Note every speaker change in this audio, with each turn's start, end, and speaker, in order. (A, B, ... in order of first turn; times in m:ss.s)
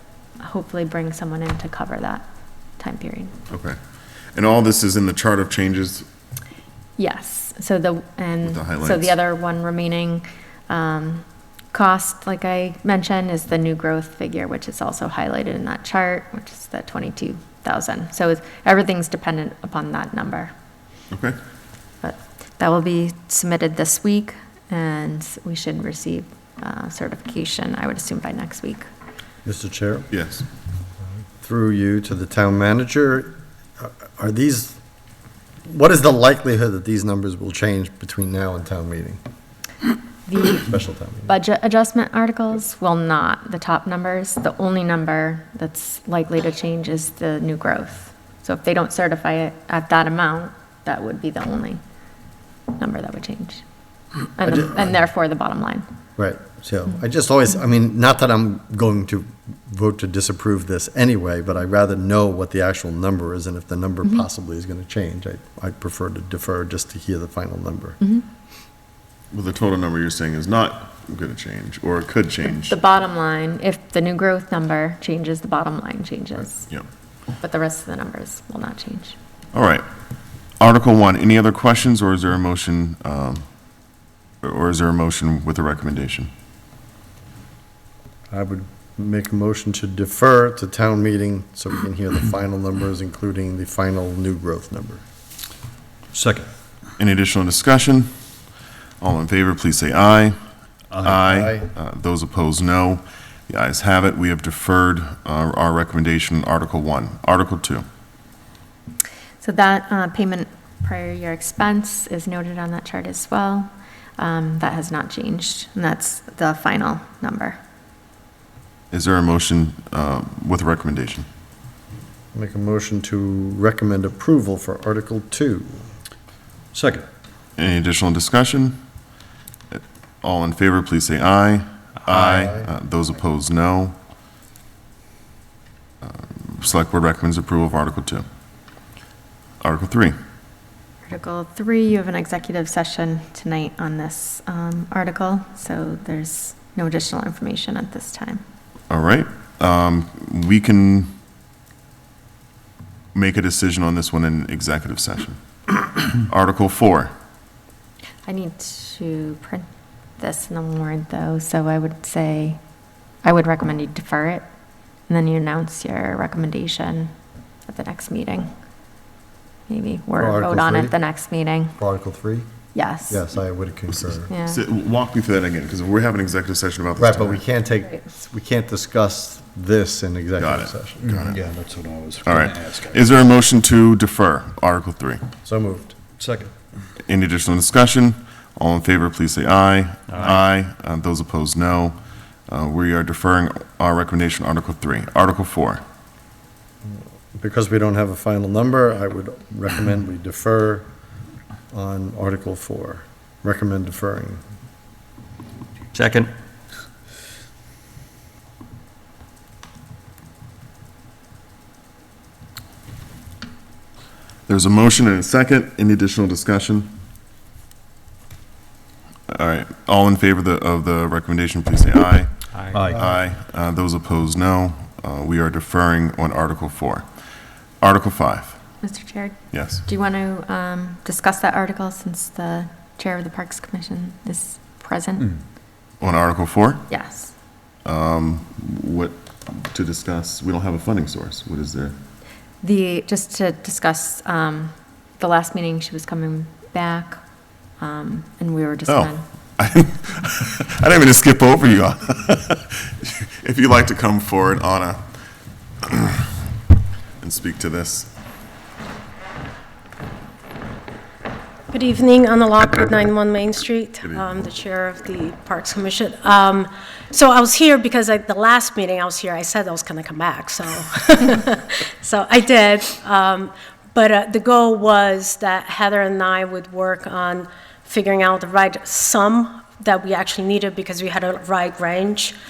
0:00.4-0:02.2 A
0:02.8-0:03.4 A
0:03.5-0:03.8 B
0:04.3-0:06.0 B
0:07.0-0:20.5 A
0:08.4-0:09.1 B
0:21.1-0:21.4 B
0:22.0-0:28.9 A
0:29.4-0:30.1 C
0:30.1-0:30.4 B
0:31.4-0:34.8 C
0:35.6-0:39.2 C
0:40.3-0:40.7 A
0:40.6-0:41.3 C
0:41.3-0:51.8 A
0:52.7-0:53.6 A
0:54.2-0:55.8 A
0:56.2-1:08.0 C
1:09.3-1:12.8 B
1:12.7-1:16.7 A
1:17.4-1:19.2 A
1:19.5-1:19.8 B
1:20.6-1:23.4 B
1:24.4-1:26.3 B
1:28.3-1:35.0 C
1:36.1-1:36.5 D
1:37.0-1:38.1 B
1:39.0-1:40.4 B
1:41.0-1:47.8 B
1:41.0-1:41.7 C
1:49.4-1:57.6 A
1:58.9-2:01.2 B
2:02.3-2:05.8 C
2:06.7-2:07.0 D
2:07.6-2:08.8 B
2:09.7-2:13.9 B
2:12.1-2:12.7 C
2:16.0-2:18.2 B
2:19.6-2:20.1 B
2:21.0-2:28.4 A
2:28.9-2:31.1 B
2:33.1-2:35.4 B
2:36.1-2:37.1 B
2:38.2-2:39.6 A
2:40.2-2:42.6 A
2:43.2-2:44.4 A
2:45.1-2:47.1 A
2:47.7-2:48.5 A
2:49.7-2:51.8 A
2:50.2-2:51.0 C
2:51.8-2:52.4 C
2:52.7-2:53.2 A
2:53.1-2:54.3 C
2:53.9-2:57.4 B
2:54.3-2:54.6 A
2:57.0-3:01.2 C
3:00.4-3:01.4 B
3:01.1-3:03.0 D
3:02.2-3:05.2 B
3:05.4-3:06.0 C
3:06.2-3:06.5 D
3:07.0-3:12.0 B
3:12.5-3:15.8 B
3:16.8-3:20.8 C
3:21.7-3:24.4 C
3:25.9-3:26.3 D
3:34.5-3:36.9 B
3:39.3-3:47.0 B
3:42.7-3:43.0 D
3:47.8-3:48.6 B
3:48.8-3:55.4 A
3:49.5-3:49.8 B
3:56.0-3:56.9 B
3:56.9-3:57.3 A
3:57.8-4:01.9 B
4:02.6-4:07.2 A
4:07.8-4:09.2 A
4:08.9-4:15.0 B
4:15.8-4:16.4 B
4:17.2-4:18.1 B
4:21.7-4:42.3 E